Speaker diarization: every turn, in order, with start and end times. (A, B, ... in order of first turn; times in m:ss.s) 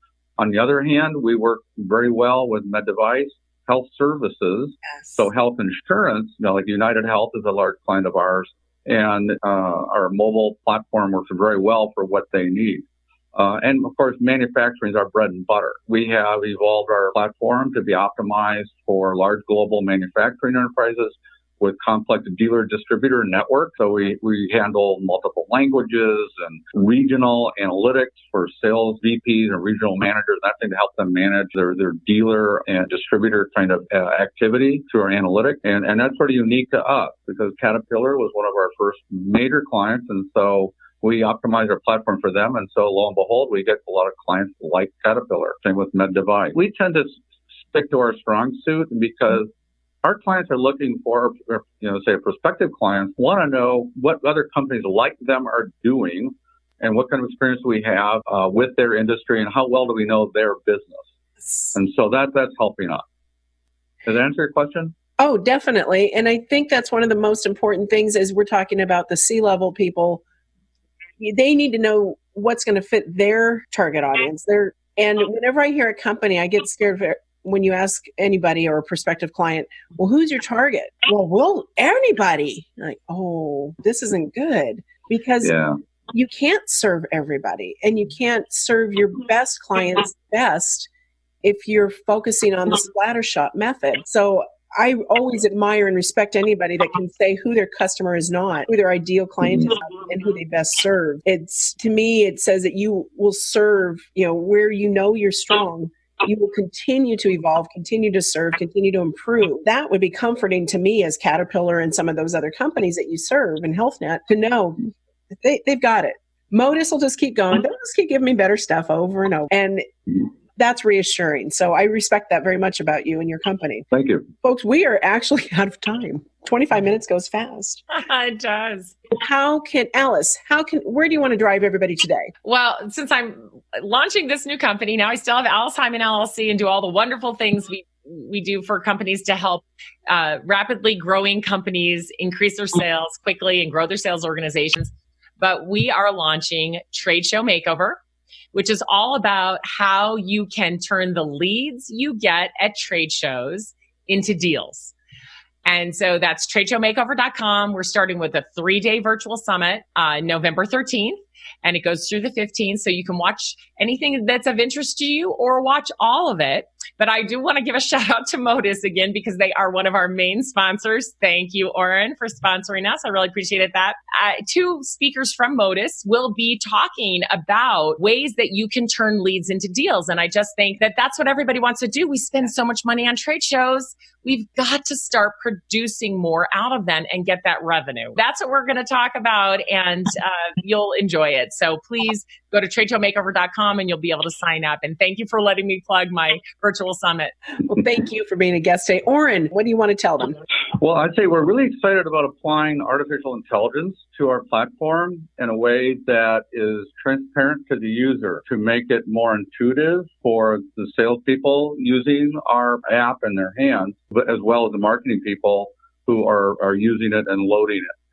0:00.4-0:49.5 A
0:50.0-1:01.1 A
1:01.7-1:03.0 A
1:04.0-1:05.0 A
1:05.2-1:10.2 B
1:11.2-1:25.5 B
1:25.4-1:25.8 A
1:26.1-1:30.9 B
1:31.4-2:03.9 B
2:03.9-2:04.3 A
2:04.4-2:07.8 B
2:07.9-2:09.0 C
2:09.1-2:12.3 B
2:12.4-2:28.0 C
2:28.5-2:34.9 C
2:35.6-3:17.3 C
3:17.6-3:20.4 B
3:20.8-3:38.0 A